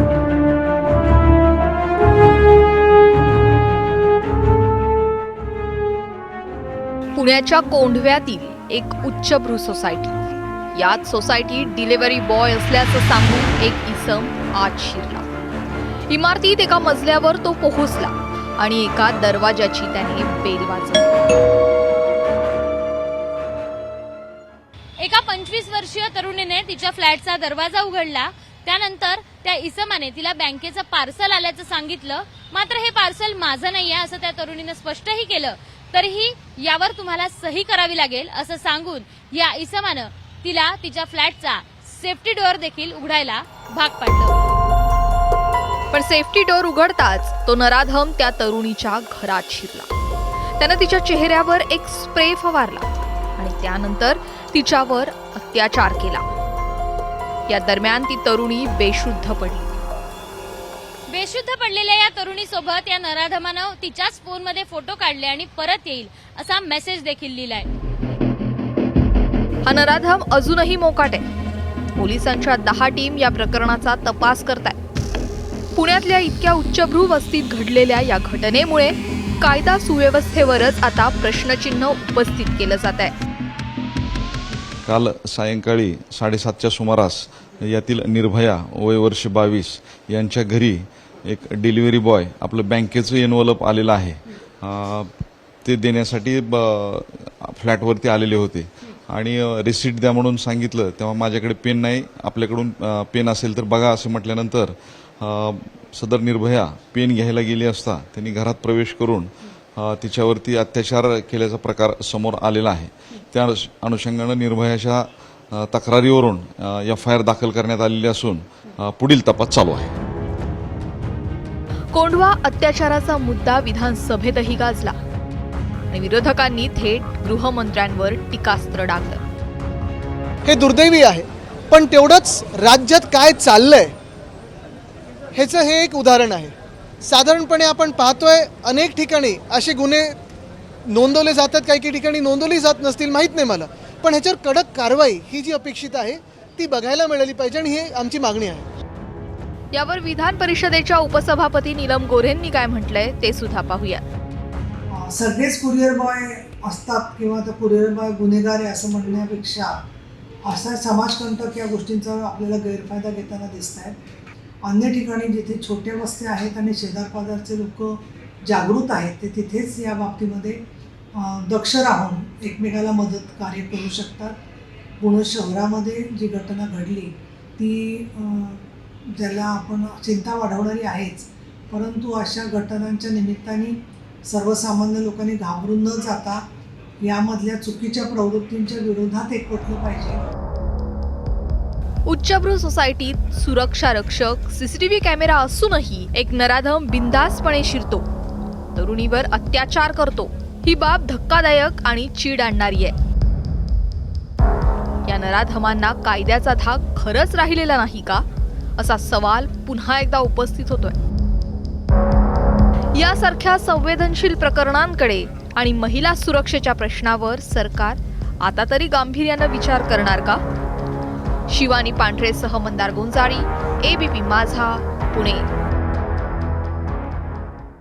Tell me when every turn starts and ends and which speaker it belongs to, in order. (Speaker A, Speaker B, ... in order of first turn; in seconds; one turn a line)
Speaker A: 7.2-10.2
Speaker A: 10.7-15.3
Speaker A: 16.1-21.2
Speaker B: 25.0-44.4
Speaker A: 45.9-49.9
Speaker A: 50.6-52.9
Speaker A: 53.4-56.2
Speaker A: 57.5-59.7
Speaker B: 61.1-67.7
Speaker A: 69.7-71.2
Speaker A: 72.0-74.8
Speaker A: 75.8-83.1
Speaker C: 84.8-95.1
Speaker C: 95.7-119.9
Speaker A: 121.9-124.9
Speaker A: 125.9-129.2
Speaker D: 130.4-133.9
Speaker D: 135.3-140.2
Speaker D: 140.9-148.7
Speaker A: 149.7-154.0
Speaker E: 154.9-159.8
Speaker E: 160.5-164.0
Speaker E: 164.6-170.6
Speaker E: 171.2-174.3
Speaker E: 175.0-186.4
Speaker E: 187.0-190.2
Speaker A: 192.1-198.1
Speaker A: 198.8-202.9
Speaker A: 205.1-208.2
Speaker A: 208.8-211.0
Speaker A: 212.9-220.4
Speaker A: 221.5-225.5